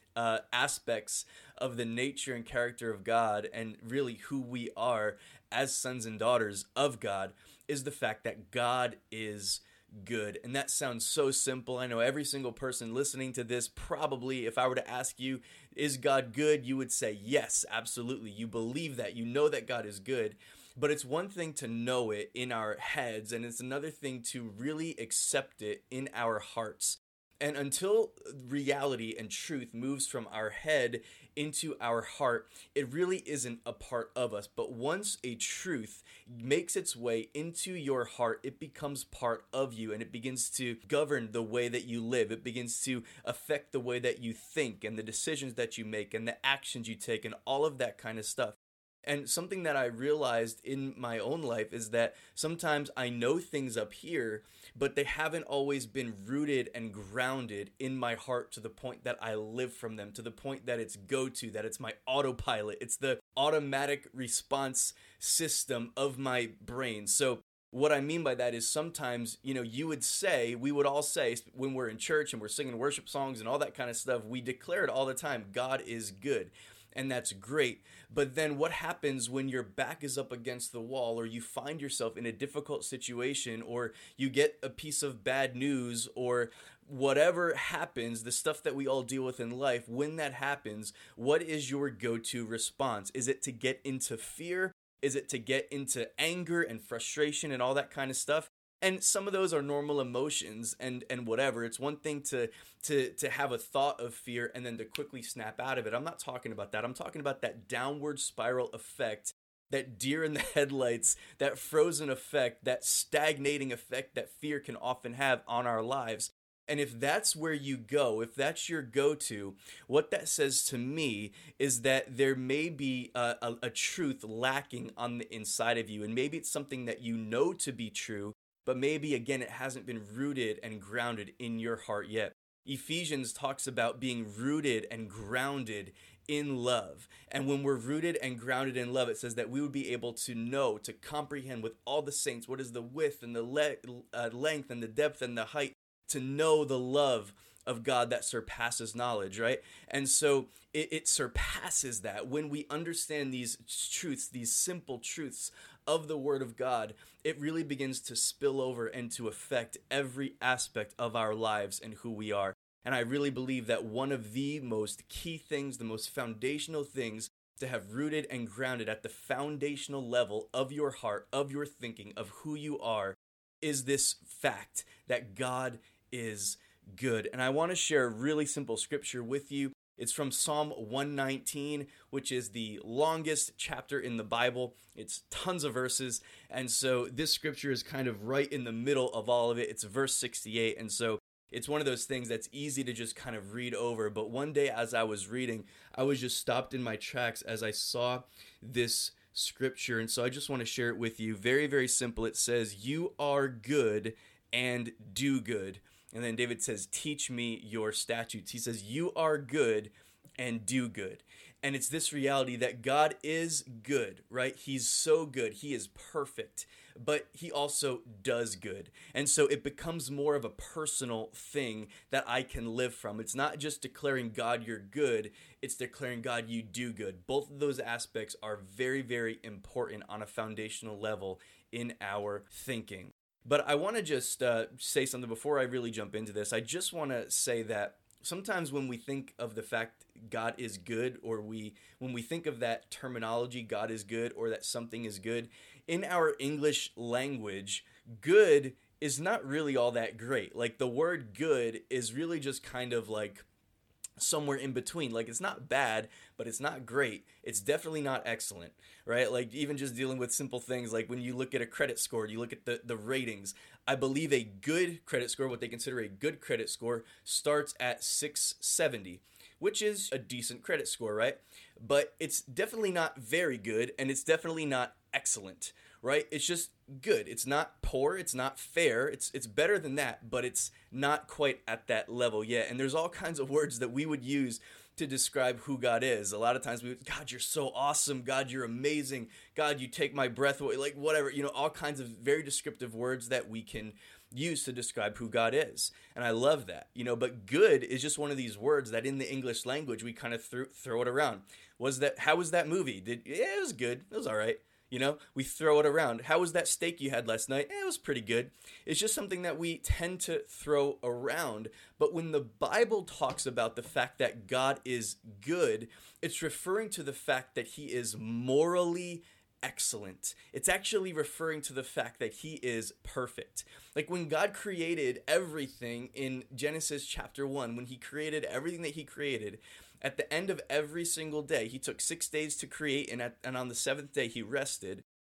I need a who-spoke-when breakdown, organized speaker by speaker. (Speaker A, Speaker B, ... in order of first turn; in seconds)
Speaker A: 0.1-253.4, 254.2-335.0